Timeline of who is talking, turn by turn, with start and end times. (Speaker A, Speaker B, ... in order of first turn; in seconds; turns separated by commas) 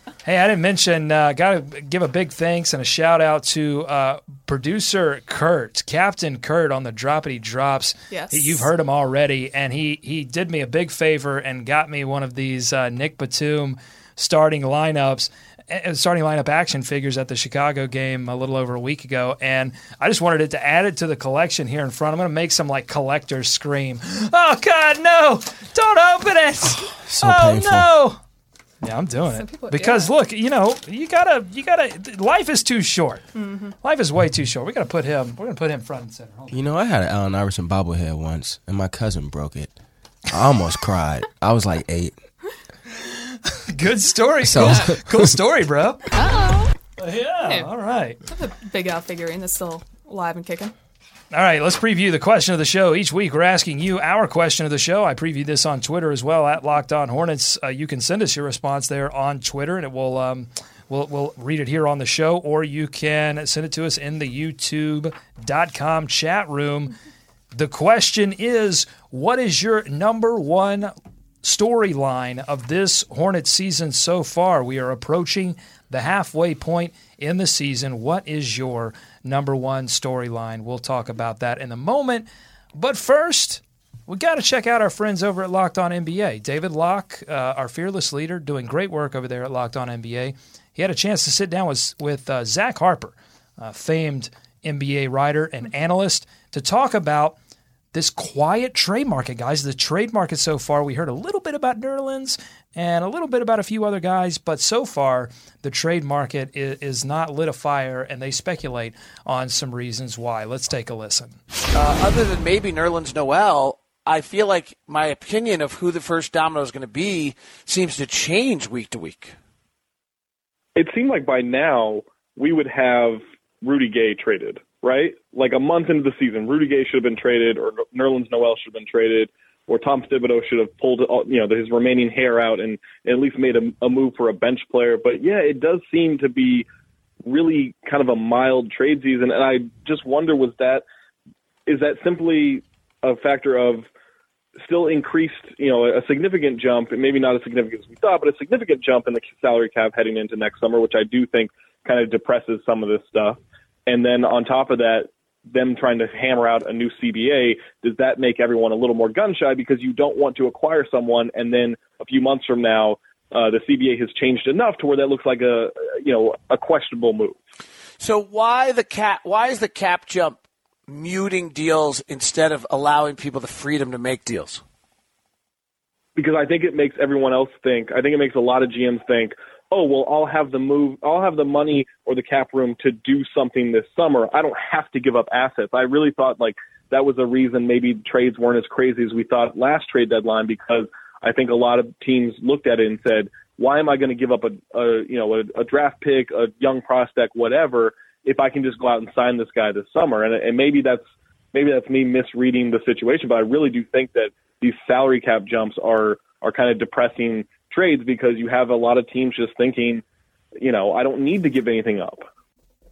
Speaker A: 0.2-28.2, Speaker B: 8.1-8.7, Speaker C: 26.9-27.9, Speaker A: 28.8-33.2, Speaker B: 29.3-30.1, Speaker B: 33.4-33.8, Speaker A: 33.8-36.5, Speaker C: 36.5-39.7, Speaker C: 40.3-42.1, Speaker A: 43.3-46.1, Speaker C: 44.4-45.4, Speaker B: 46.1-46.7, Speaker A: 47.0-48.2, Speaker B: 48.3-50.7, Speaker A: 51.3-66.9, Speaker A: 67.5-97.3, Speaker A: 97.9-111.4, Speaker D: 111.7-119.3, Speaker E: 120.8-136.7, Speaker E: 137.3-140.8, Speaker E: 141.7-143.9, Speaker E: 144.7-167.4, Speaker D: 168.0-174.6, Speaker E: 176.2-201.0, Speaker E: 201.5-210.0, Speaker E: 210.6-212.3